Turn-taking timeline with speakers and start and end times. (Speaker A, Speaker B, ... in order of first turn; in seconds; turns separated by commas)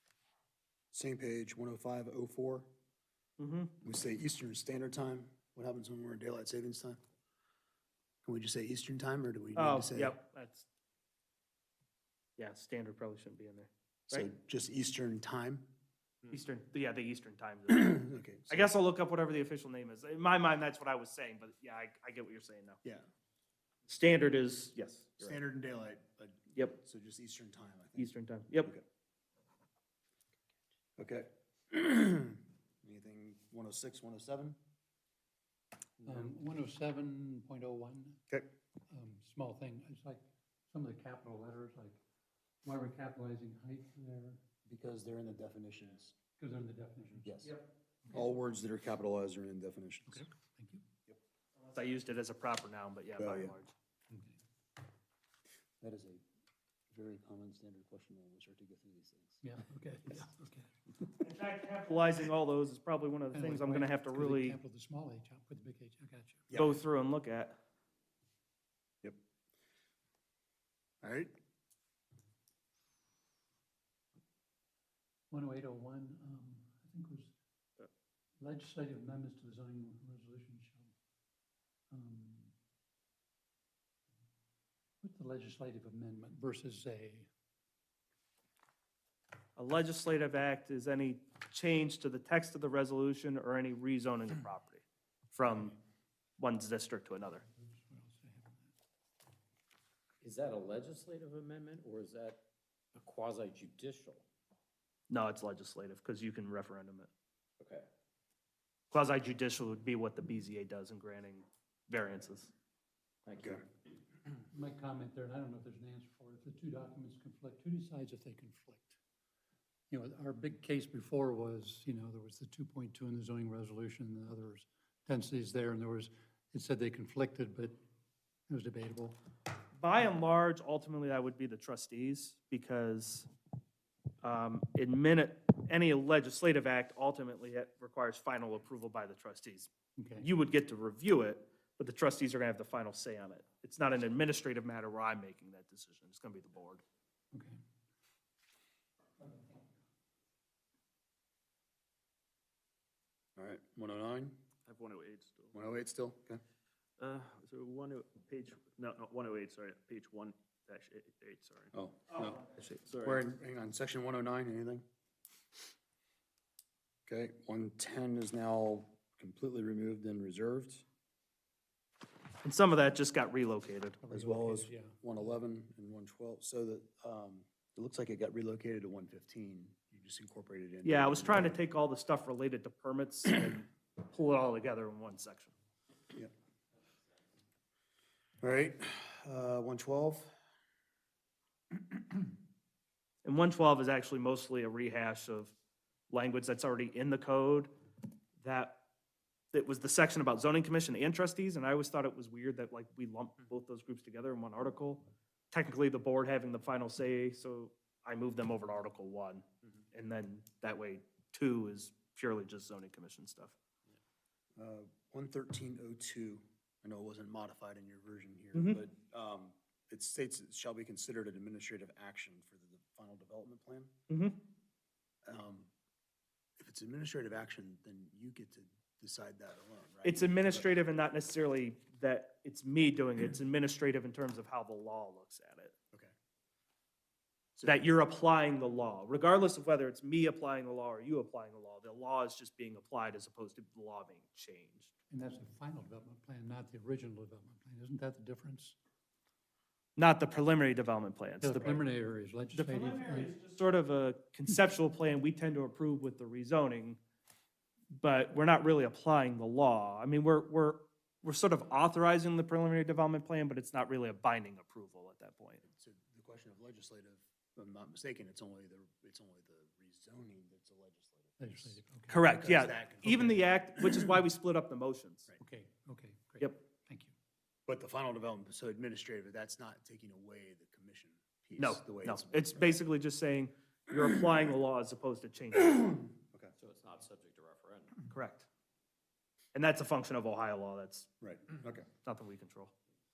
Speaker A: 0.9-2.7, Speaker B: 3.4-3.7, Speaker A: 3.8-7.0, Speaker A: 8.2-10.2, Speaker B: 9.6-10.7, Speaker B: 12.4-14.3, Speaker A: 14.1-15.7, Speaker B: 16.3-22.8, Speaker A: 17.7-18.7, Speaker B: 23.9-25.4, Speaker A: 25.2-28.1, Speaker B: 27.9-28.7, Speaker A: 31.0-34.6, Speaker C: 36.0-38.2, Speaker C: 38.9-42.0, Speaker C: 42.6-44.4, Speaker A: 44.7-46.1, Speaker C: 46.4-47.4, Speaker A: 47.2-47.6, Speaker A: 48.1-50.3, Speaker C: 50.1-50.8, Speaker B: 51.6-53.7, Speaker A: 53.2-53.5, Speaker C: 54.1-54.4, Speaker A: 55.8-56.2, Speaker A: 56.9-59.4, Speaker C: 59.4-60.7, Speaker B: 61.2-64.6, Speaker C: 63.3-66.5, Speaker B: 66.5-67.6, Speaker A: 71.0-71.3, Speaker C: 75.3-77.3, Speaker C: 78.4-80.9, Speaker C: 81.9-82.5, Speaker C: 85.0-87.3, Speaker B: 89.6-95.7, Speaker B: 96.4-97.4, Speaker C: 97.6-98.7, Speaker D: 100.2-104.2, Speaker B: 105.1-107.1, Speaker D: 107.6-107.9, Speaker B: 108.9-112.5, Speaker D: 113.2-113.6, Speaker C: 114.5-119.0, Speaker C: 119.9-127.8, Speaker C: 128.5-129.2, Speaker B: 129.8-133.3, Speaker B: 134.2-146.8, Speaker C: 140.0-140.3, Speaker C: 147.3-147.6, Speaker A: 153.4-154.4, Speaker E: 154.7-155.6, Speaker A: 155.5-156.4, Speaker E: 157.0-161.7, Speaker A: 161.7-162.4, Speaker E: 162.6-163.2, Speaker A: 163.0-164.8, Speaker A: 167.1-170.8, Speaker B: 172.4-174.0, Speaker C: 174.0-175.2, Speaker A: 174.1-181.6, Speaker B: 180.8-185.5, Speaker A: 188.4-190.3, Speaker B: 193.2-195.5, Speaker B: 196.1-197.7, Speaker B: 198.4-198.8, Speaker B: 199.5-213.5, Speaker A: 214.6-223.9, Speaker B: 218.5-218.8, Speaker B: 224.1-224.4, Speaker A: 225.2-225.7, Speaker A: 226.6-230.7, Speaker B: 230.0-235.7, Speaker A: 237.6-237.9, Speaker B: 237.7-244.9, Speaker C: 245.1-248.8, Speaker B: 250.0-251.8, Speaker C: 251.4-253.3, Speaker B: 252.5-257.0, Speaker B: 257.9-265.6, Speaker A: 265.7-271.7, Speaker C: 271.4-272.3, Speaker B: 272.1-275.3, Speaker A: 272.3-274.1, Speaker C: 275.4-277.1, Speaker A: 277.7-282.8, Speaker B: 281.6-286.0, Speaker D: 286.6-288.0, Speaker B: 288.1-288.5, Speaker B: 289.5-291.1, Speaker A: 291.2-291.9, Speaker B: 292.0-292.7